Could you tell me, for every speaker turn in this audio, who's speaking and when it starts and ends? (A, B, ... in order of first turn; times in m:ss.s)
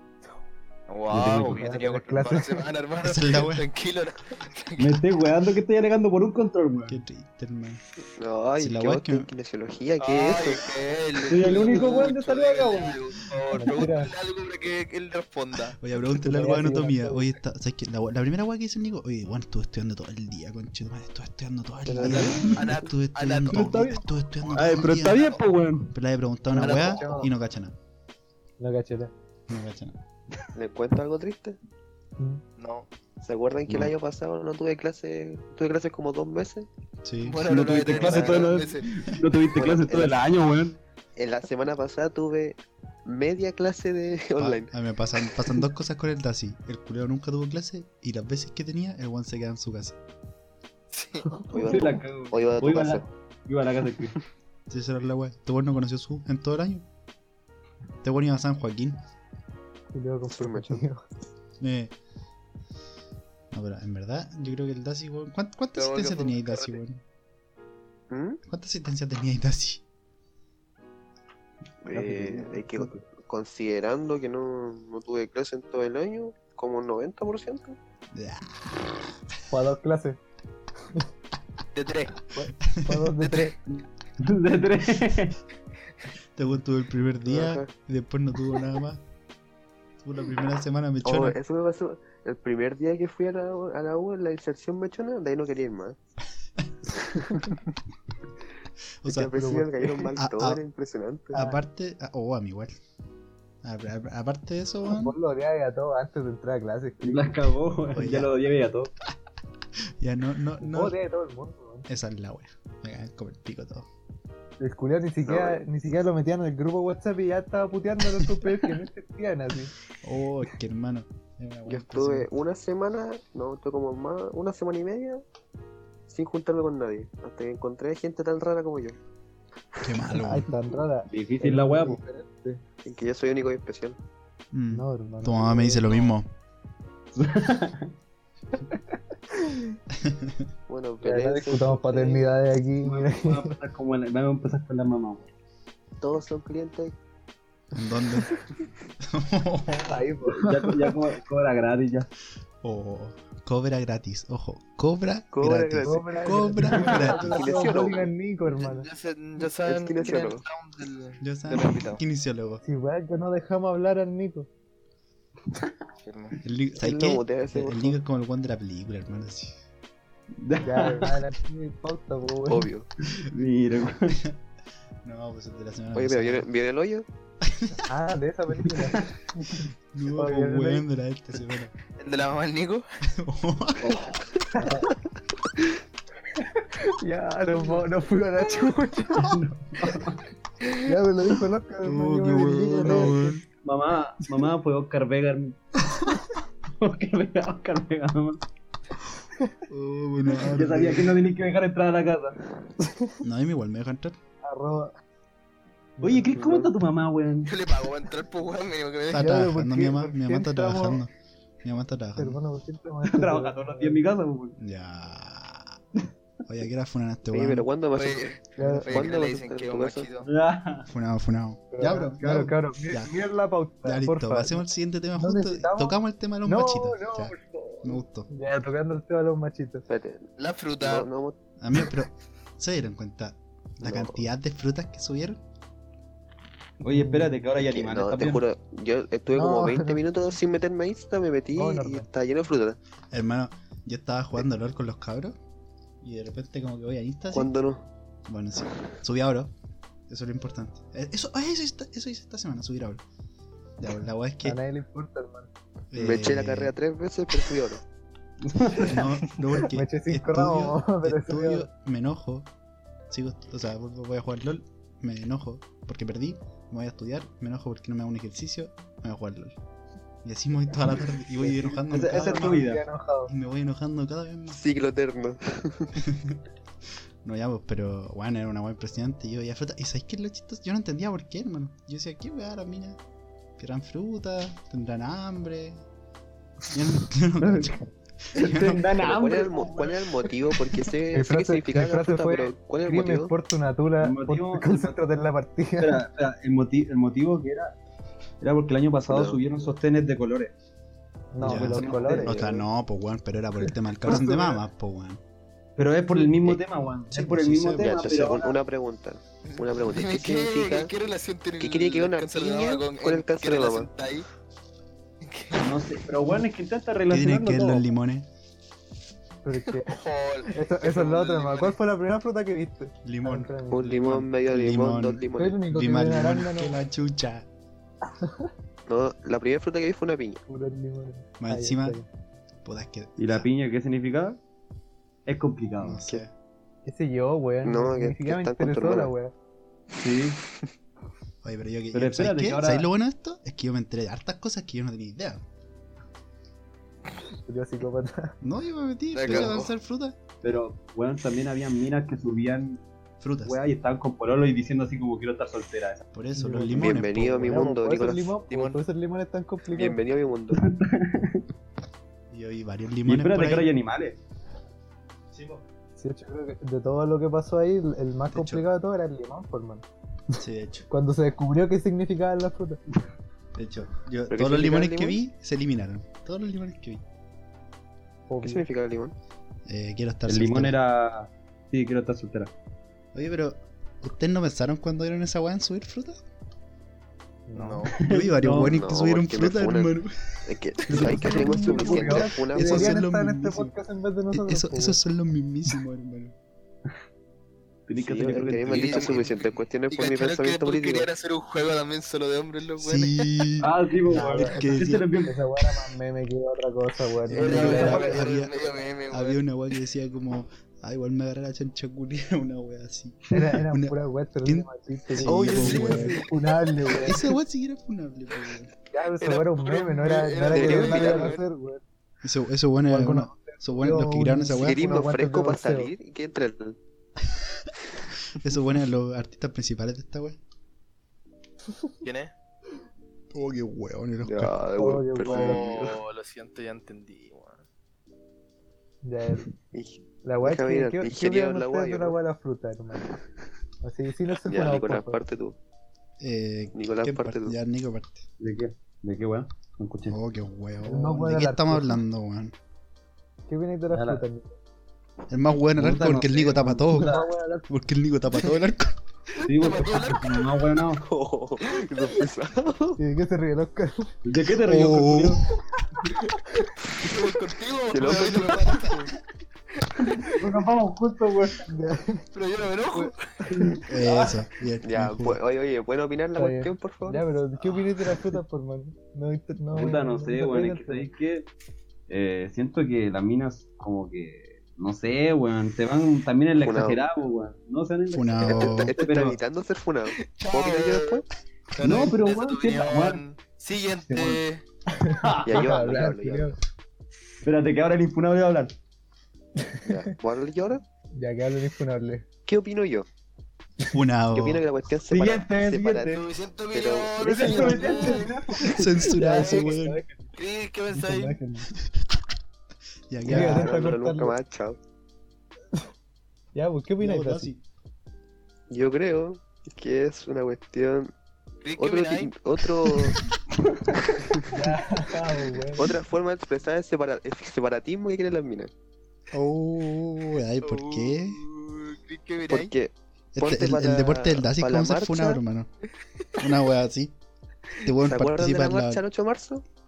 0:00.9-0:05.0 A
0:01.1-0:01.7 B
0:01.4-0:02.6 C
0:03.0-0:03.7 D
0:04.8-0:07.0 B
0:06.9-0:07.8 D
0:08.2-0:10.6 E
0:08.6-0:09.3 D
0:10.0-0:15.8 A
0:11.3-0:13.0 B
0:11.5-0:11.8 C
0:13.5-0:14.1 C
0:15.7-0:25.3 D
0:16.1-0:17.3 C
0:21.8-0:22.6 C
0:22.0-0:22.6 B
0:22.5-0:24.0 A
0:23.5-0:24.0 B
0:24.5-0:25.9 B
0:25.0-0:25.4 A
0:25.9-0:27.7 D
0:26.5-0:27.2 A
0:26.5-0:27.3 C
0:28.6-0:29.1 C
0:29.5-0:30.0 D
0:30.5-0:31.6 E
0:32.6-0:32.9 A
0:33.2-0:36.7 E
0:33.7-0:33.9 B
0:37.0-0:37.4 D
0:37.2-0:38.9 A
0:37.4-0:40.8 B
0:37.9-0:38.6 E
0:39.5-0:40.2 E
0:41.2-0:44.7 E
0:44.4-0:50.0 D
0:50.9-0:51.3 A
0:51.2-0:51.9 C
0:51.5-0:53.0 E
0:51.6-0:54.2 B
0:54.7-0:56.8 D
0:58.0-0:59.0 D
0:59.9-1:01.0 C
1:00.3-1:00.8 E
1:01.6-1:01.9 D
1:03.5-1:07.0 D
1:05.8-1:06.8 A
1:08.1-1:08.4 E
1:08.5-1:09.8 D
1:11.8-1:17.8 E
1:11.9-1:12.8 B
1:18.1-1:18.6 D
1:19.5-1:20.2 C
1:21.7-1:22.2 A
1:22.3-1:23.6 C
1:22.7-1:23.0 D
1:23.7-1:25.4 B
1:26.4-1:29.0 D
1:27.2-1:27.7 E
1:30.0-1:31.4 D
1:31.0-1:36.0 E
1:37.0-1:37.6 E
1:39.0-1:39.3 D
1:39.1-1:41.4 E
1:39.3-1:39.8 C
1:40.2-1:40.6 D
1:41.3-1:42.7 D
1:41.3-1:41.6 C
1:43.6-1:45.1 D
1:44.9-1:47.3 C
1:47.0-1:48.9 B
1:47.9-1:48.3 D
1:50.0-1:51.0 D
1:50.6-1:51.9 C
1:51.9-1:53.9 D
1:54.6-1:59.7 C
1:55.2-1:55.6 E
2:00.0-2:02.3 D
2:01.7-2:05.2 E
2:06.1-2:09.0 E
2:09.8-2:10.5 D
2:10.2-2:12.6 C
2:11.1-2:12.0 B
2:12.8-2:14.0 E
2:14.5-2:16.3 D
2:14.7-2:16.1 C
2:17.1-2:17.9 B
2:19.3-2:19.7 C
2:20.0-2:20.4 D
2:20.7-2:22.3 E
2:21.0-2:23.5 C
2:22.8-2:25.3 B
2:26.0-2:26.9 E
2:27.7-2:28.4 D
2:29.0-2:30.0 D
2:29.9-2:31.0 C
2:30.3-2:32.1 B
2:32.6-2:37.4 D
2:35.3-2:36.2 E
2:35.8-2:38.9 C
2:36.7-2:38.1 E
2:38.6-2:42.0 A
2:39.6-2:40.4 E
2:41.2-2:42.6 D
2:42.6-2:44.5 C
2:46.0-2:46.4 A
2:46.4-2:49.6 D
2:46.8-2:48.0 E
2:50.3-2:51.2 B
2:50.6-2:52.7 C
2:52.5-2:52.9 E
2:53.0-2:54.2 B
2:55.0-2:56.5 D
2:55.9-2:57.0 E
2:57.4-2:57.8 D
2:57.8-2:59.6 C
2:59.9-3:01.7 D
3:00.1-3:00.8 C
3:02.0-3:02.8 A
3:03.1-3:04.0 D
3:03.8-3:04.1 B
3:04.5-3:04.9 C
3:06.4-3:09.4 C
3:09.1-3:10.2 B
3:10.8-3:13.4 C
3:11.8-3:13.4 D
3:13.6-3:15.6 B
3:16.8-3:18.4 B
3:19.7-3:21.2 D
3:20.4-3:22.4 B
3:23.2-3:24.2 D
3:24.4-3:24.9 C
3:26.0-3:26.5 C
3:26.0-3:27.6 B
3:26.3-3:26.7 E
3:27.4-3:29.3 A
3:29.1-3:31.1 D
3:29.1-3:31.0 C
3:31.6-3:32.4 D
3:32.2-3:34.0 C
3:33.0-3:34.6 B
3:34.6-3:35.8 D
3:36.4-3:37.7 D
3:37.3-3:40.1 E
3:37.9-3:40.3 A
3:38.6-3:39.1 C
3:40.2-3:40.9 B
3:40.9-3:43.1 D
3:41.7-3:44.6 C
3:43.8-3:48.3 D
3:45.2-3:49.8 C
3:49.9-3:50.3 E
3:50.4-3:51.1 A
3:50.8-3:51.4 E
3:51.6-3:55.4 D
3:53.8-3:54.2 E
3:56.8-3:58.4 B
3:56.9-3:57.4 C
3:57.6-4:02.8 E
3:59.3-4:00.0 C
4:01.5-4:02.1 C
4:03.1-4:05.4 D
4:06.0-4:07.5 D
4:07.3-4:07.8 E
4:08.3-4:09.5 D
4:10.1-4:13.0 D
4:13.8-4:14.6 D
4:14.4-4:15.5 C
4:15.9-4:16.7 D
4:15.9-4:17.8 E
4:18.4-4:19.2 B
4:18.8-4:22.5 D
4:19.6-4:21.7 C
4:23.1-4:29.6 D
4:30.2-4:32.7 D
4:31.8-4:32.8 B
4:32.1-4:33.3 C
4:33.3-4:34.6 D
4:34.5-4:36.0 E
4:36.0-4:36.4 D
4:37.2-4:43.0 D
4:43.6-4:45.8 D
4:46.7-4:48.9 D
4:48.3-4:50.1 B
4:49.0-4:53.3 E
4:51.1-4:56.1 C
4:54.0-4:55.0 B
4:55.8-4:57.7 B
4:58.4-5:00.5 B
4:59.0-4:59.4 E
5:01.3-5:02.5 C
5:01.4-5:02.6 B
5:01.4-5:05.2 D
5:04.1-5:04.6 B
5:05.8-5:08.6 B
5:07.1-5:08.1 D
5:07.8-5:10.9 E
5:09.4-5:14.3 A
5:11.6-5:13.9 E
5:15.2-5:15.9 A
5:15.5-5:17.8 B
5:17.1-5:18.3 D
5:19.4-5:24.0 C
5:19.9-5:21.8 A
5:23.0-5:27.5 D
5:23.7-5:25.6 E
5:25.4-5:26.8 C
5:28.2-5:28.5 C
5:28.9-5:30.4 E
5:30.5-5:32.0 C
5:31.4-5:32.0 D
5:32.6-5:33.5 D
5:33.2-5:34.4 B
5:35.2-5:36.0 B
5:35.8-5:36.3 D
5:36.8-5:39.3 C
5:37.6-5:39.1 E
5:39.9-5:40.4 B
5:41.4-5:45.4 D
5:41.9-5:42.9 B
5:47.4-5:48.4 C
5:48.4-5:50.2 D
5:49.1-5:49.7 A
5:50.4-5:52.8 B
5:53.2-5:53.6 D
5:53.4-5:56.0 B
5:56.1-5:57.7 D
5:56.3-6:00.0 C
5:56.7-5:58.4 E
5:58.5-5:58.8 A
5:59.7-6:00.6 E
6:00.5-6:01.4 B
6:02.3-6:03.7 D
6:03.0-6:04.2 B
6:05.3-6:05.6 D
6:06.0-6:09.8 C
6:08.3-6:08.6 D
6:10.4-6:10.9 D
6:10.9-6:12.8 C
6:13.5-6:17.0 D
6:14.3-6:15.2 E
6:18.3-6:18.7 C
6:18.4-6:19.1 E
6:19.6-6:20.8 D
6:20.3-6:22.5 B
6:23.1-6:26.2 D
6:27.5-6:27.9 C
6:27.5-6:27.9 A
6:27.9-6:28.8 B
6:28.0-6:30.4 D
6:28.6-6:29.9 E
6:30.4-6:33.0 E
6:30.9-6:32.2 B
6:30.9-6:35.0 C
6:31.0-6:33.7 D
6:34.3-6:36.3 D
6:37.9-6:39.3 B
6:38.0-6:41.1 E
6:38.6-6:43.4 A
6:42.8-6:45.1 D
6:43.6-6:45.4 B
6:44.1-6:48.2 C
6:47.2-6:56.2 D
6:47.3-6:49.4 A
6:47.5-6:48.0 B
6:53.3-6:57.3 C
6:55.4-6:56.3 A
6:57.0-6:58.7 D
6:58.9-7:01.8 C
6:59.2-7:01.4 A
7:00.5-7:01.4 E
7:02.2-7:05.0 D
7:02.9-7:05.9 C
7:04.5-7:06.8 E
7:07.3-7:07.7 D
7:08.3-7:10.4 D
7:12.0-7:12.3 A
7:13.3-7:14.6 D
7:14.2-7:16.0 E
7:14.8-7:15.6 C
7:15.2-7:17.6 A
7:19.0-7:19.5 C
7:19.7-7:22.2 E
7:20.2-7:23.2 C
7:23.8-7:25.2 C
7:24.4-7:25.6 E
7:26.2-7:28.2 D
7:26.7-7:27.5 E
7:28.4-7:30.2 B
7:30.1-7:32.5 D
7:30.8-7:32.0 C
7:33.5-7:34.6 C
7:33.9-7:34.2 B
7:35.3-7:37.1 D
7:35.8-7:37.3 B
7:36.9-7:37.7 C
7:37.7-7:39.0 D
7:39.4-7:41.0 B
7:39.5-7:40.4 A
7:41.0-7:43.0 E
7:43.0-7:44.1 C
7:44.2-7:45.4 B
7:44.6-7:45.4 D
7:46.0-7:46.4 C
7:47.0-7:49.1 A
7:47.9-7:49.1 E
7:50.0-7:51.7 B
7:51.6-7:52.2 C
7:52.3-7:53.3 A
7:52.9-7:53.8 C
7:53.5-7:54.4 B
7:53.9-7:55.4 D
7:54.8-7:57.2 E
7:56.4-8:01.1 C
7:59.7-8:01.5 B
8:02.1-8:09.4 B
8:06.6-8:07.0 E
8:08.1-8:08.9 D
8:08.4-8:11.2 E
8:10.2-8:11.2 A
8:11.7-8:14.6 A
8:11.8-8:13.2 B
8:14.1-8:14.4 B
8:14.9-8:16.6 C
8:15.0-8:15.8 B
8:15.4-8:16.5 E
8:17.4-8:18.7 B
8:19.6-8:19.9 C
8:19.8-8:20.8 E
8:21.2-8:22.2 C
8:22.4-8:23.1 E
8:23.9-8:24.6 D
8:24.3-8:28.2 E
8:25.1-8:26.1 B
8:26.0-8:28.4 A
8:27.2-8:28.8 B
8:27.4-8:30.2 C
8:28.7-8:30.0 D
8:29.2-8:29.7 A
8:30.3-8:31.4 A
8:30.9-8:31.7 C
8:31.8-8:32.1 D
8:33.1-8:33.8 D
8:33.2-8:34.4 C
8:33.3-8:34.8 E
8:36.5-8:37.5 C
8:37.0-8:37.6 D
8:38.7-8:41.1 E
8:41.6-8:42.3 A
8:41.8-8:43.2 E
8:44.1-8:44.5 E
8:44.5-8:45.9 C
8:45.8-8:48.7 E
8:49.3-8:51.4 D
8:50.6-8:52.7 A
8:52.5-8:55.4 E
8:53.3-8:55.7 D
8:56.4-8:57.1 D
8:57.8-8:59.0 D
8:58.0-8:59.6 E